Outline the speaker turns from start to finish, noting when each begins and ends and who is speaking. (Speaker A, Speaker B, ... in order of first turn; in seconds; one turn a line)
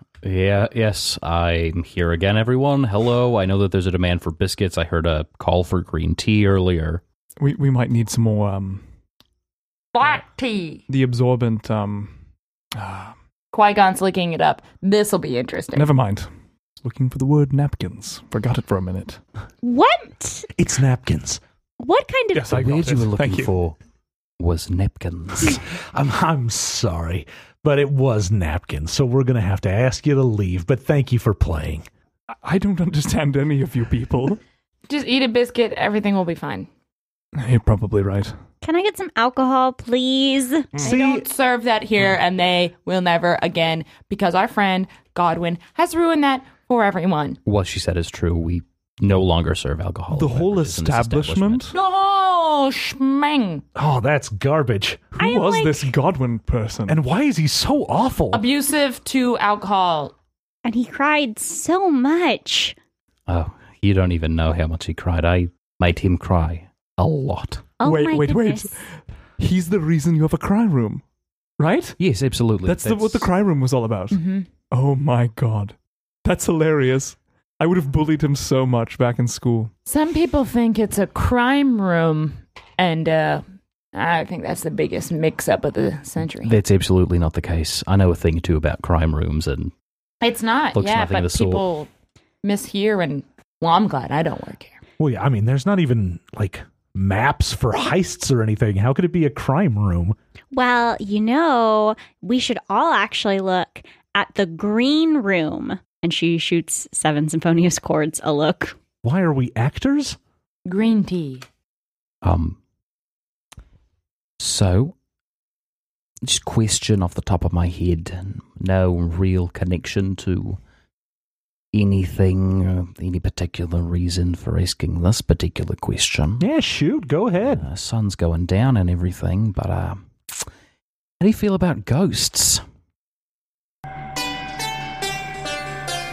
Speaker A: 0.2-7.0
Speaker B: 7.4-8.8
Speaker C: 9.9-10.8
Speaker B: 10.9-12.1
Speaker B: 12.7-13.1
Speaker C: 13.5-15.9
Speaker B: 15.7-16.3
Speaker B: 16.8-19.2
Speaker D: 19.6-20.5
Speaker E: 20.6-21.4
Speaker D: 21.8-22.6
Speaker B: 22.3-23.5
Speaker A: 22.5-23.8
Speaker A: 24.4-25.6
Speaker E: 25.7-31.8
Speaker B: 32.3-34.4
Speaker C: 34.9-36.7
Speaker B: 37.3-38.3
Speaker D: 38.6-40.8
Speaker E: 40.8-41.3
Speaker C: 40.8-47.4
Speaker A: 47.4-51.7
Speaker B: 50.1-51.8
Speaker C: 51.7-53.6
Speaker E: 53.8-55.1
Speaker D: 55.2-55.9
Speaker B: 55.2-57.0
Speaker E: 56.9-58.4
Speaker C: 58.3-60.1
Speaker D: 60.6-62.8
Speaker A: 63.3-67.7
Speaker D: 67.8-68.7
Speaker B: 67.8-68.8
Speaker B: 69.4-71.0
Speaker B: 71.6-72.0
Speaker A: 72.0-73.3
Speaker B: 72.6-74.2
Speaker C: 74.1-74.5
Speaker B: 74.7-79.7
Speaker C: 79.8-83.4
Speaker C: 83.9-86.6
Speaker A: 86.4-89.7
Speaker C: 90.2-91.9
Speaker A: 90.7-91.7
Speaker C: 92.4-94.8
Speaker E: 95.0-100.2
Speaker D: 100.5-108.8
Speaker E: 109.0-110.2
Speaker C: 110.6-111.4
Speaker A: 112.2-112.6
Speaker A: 114.4-115.0
Speaker A: 116.2-120.6
Speaker A: 121.7-126.5
Speaker E: 126.4-127.7
Speaker A: 127.5-130.5
Speaker A: 131.2-132.6